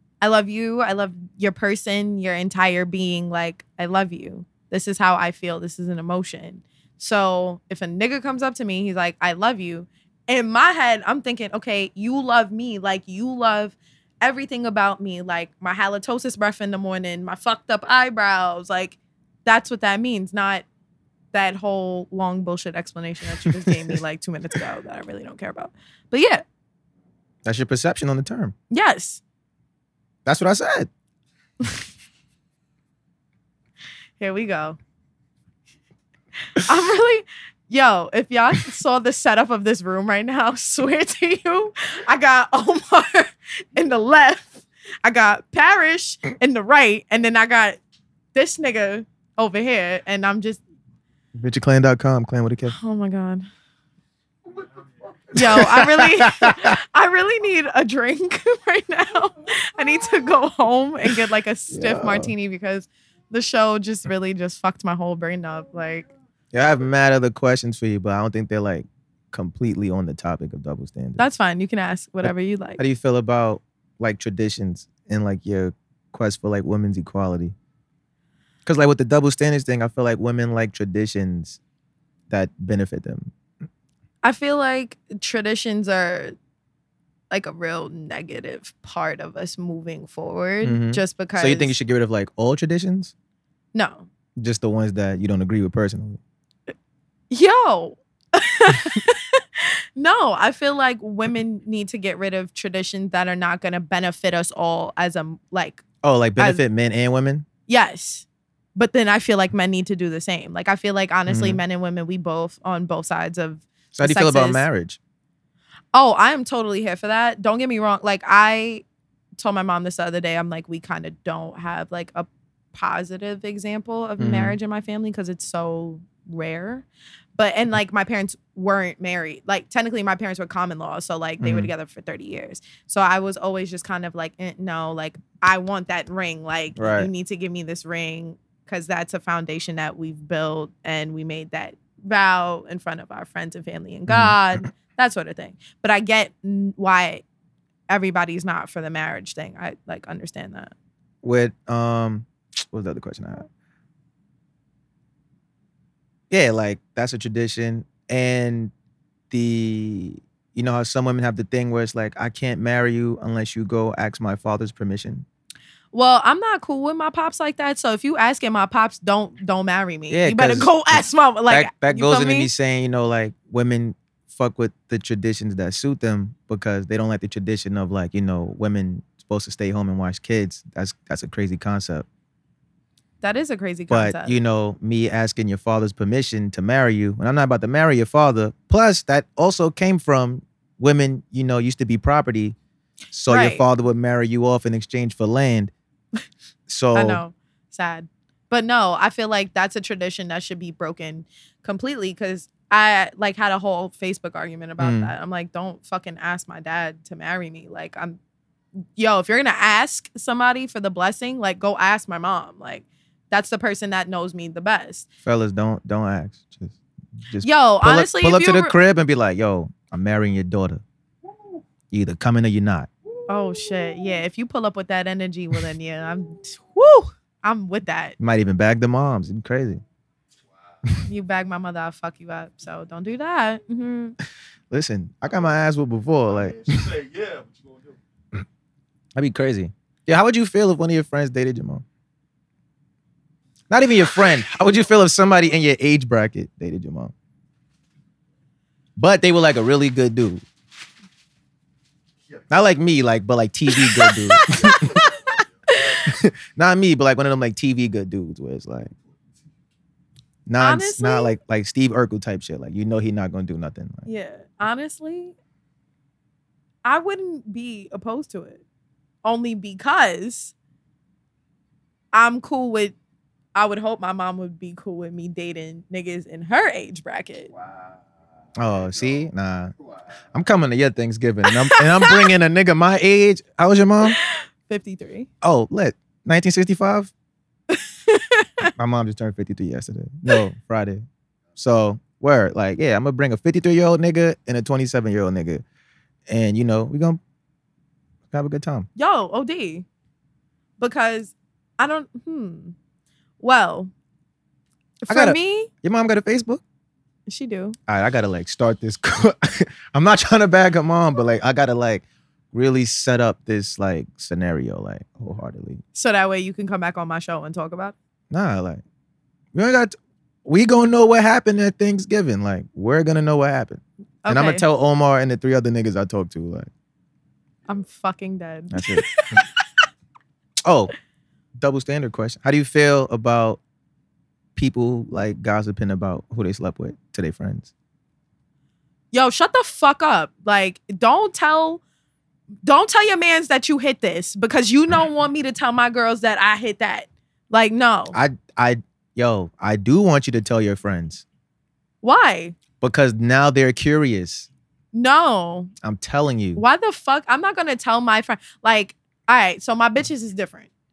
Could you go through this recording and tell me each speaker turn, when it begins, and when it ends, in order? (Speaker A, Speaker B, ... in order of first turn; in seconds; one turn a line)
Speaker A: 0.2-20.6
Speaker A: 21.3-26.4
Speaker B: 23.4-24.0
Speaker B: 27.4-28.5
Speaker A: 28.7-29.2
Speaker B: 30.2-30.9
Speaker A: 34.2-34.8
Speaker A: 36.5-47.8
Speaker A: 48.3-50.6
Speaker B: 51.4-52.7
Speaker A: 52.7-53.5
Speaker A: 55.3-66.1
Speaker B: 55.3-56.8
Speaker B: 61.7-62.3
Speaker B: 66.5-71.2
Speaker A: 71.2-72.8
Speaker B: 72.2-77.5
Speaker B: 78.7-81.6
Speaker B: 82.3-83.3
Speaker A: 84.2-86.3
Speaker A: 87.3-91.7
Speaker B: 90.6-93.1
Speaker A: 93.7-94.1
Speaker B: 94.4-96.2
Speaker A: 97.3-105.8
Speaker B: 106.0-107.5
Speaker A: 106.4-106.6
Speaker A: 107.7-114.6
Speaker B: 111.3-111.6
Speaker B: 113.9-115.0
Speaker A: 115.9-118.8
Speaker A: 119.4-126.8
Speaker B: 124.2-124.5
Speaker A: 127.4-147.2
Speaker B: 131.4-131.7
Speaker B: 136.8-137.1
Speaker B: 144.1-144.4
Speaker A: 147.9-150.7
Speaker B: 151.2-153.5
Speaker B: 156.3-158.7
Speaker B: 159.3-165.2
Speaker A: 165.9-172.5
Speaker B: 170.1-182.1
Speaker A: 183.2-184.3
Speaker B: 183.9-192.6
Speaker B: 193.1-195.7
Speaker A: 193.3-193.7
Speaker B: 196.7-197.2
Speaker A: 196.9-208.2
Speaker B: 204.8-205.1
Speaker A: 209.0-215.1
Speaker B: 215.2-216.8
Speaker B: 217.3-220.8
Speaker A: 217.4-218.7
Speaker B: 221.9-222.9
Speaker A: 223.3-228.2
Speaker B: 228.2-229.8
Speaker A: 231.0-234.2
Speaker B: 234.7-236.9
Speaker C: 236.2-238.0
Speaker B: 239.1-241.8
Speaker B: 243.7-247.1
Speaker B: 249.0-250.4
Speaker C: 252.3-252.9
Speaker B: 252.5-255.1
Speaker A: 253.8-256.0
Speaker C: 254.7-255.4
Speaker B: 256.0-258.9
Speaker B: 260.5-264.1
Speaker A: 260.6-261.3
Speaker A: 264.1-265.3
Speaker A: 266.8-268.6
Speaker A: 269.2-270.5
Speaker A: 272.1-272.9
Speaker A: 273.5-277.5
Speaker C: 277.6-278.0
Speaker B: 278.6-279.7
Speaker C: 278.6-279.2
Speaker B: 280.3-284.2
Speaker A: 281.4-282.3
Speaker A: 284.0-285.3
Speaker B: 285.4-287.1
Speaker A: 287.7-288.7
Speaker B: 288.6-291.0
Speaker B: 291.6-295.6
Speaker B: 296.3-297.2
Speaker B: 298.3-298.9
Speaker A: 298.9-299.9
Speaker A: 300.8-302.7
Speaker A: 303.4-303.9
Speaker A: 305.0-305.7
Speaker B: 305.1-306.6
Speaker A: 307.3-307.8
Speaker B: 307.9-315.8
Speaker A: 315.9-317.9
Speaker B: 318.3-318.8
Speaker B: 319.5-326.7
Speaker A: 324.2-324.6
Speaker A: 327.7-329.6
Speaker B: 328.7-329.4
Speaker B: 330.6-330.9
Speaker B: 331.6-333.6
Speaker B: 334.6-337.7
Speaker A: 339.1-341.8
Speaker A: 342.6-348.2
Speaker B: 348.1-351.2
Speaker A: 352.0-352.6
Speaker B: 352.8-354.5
Speaker A: 354.9-355.7
Speaker B: 355.8-356.6
Speaker A: 356.6-360.7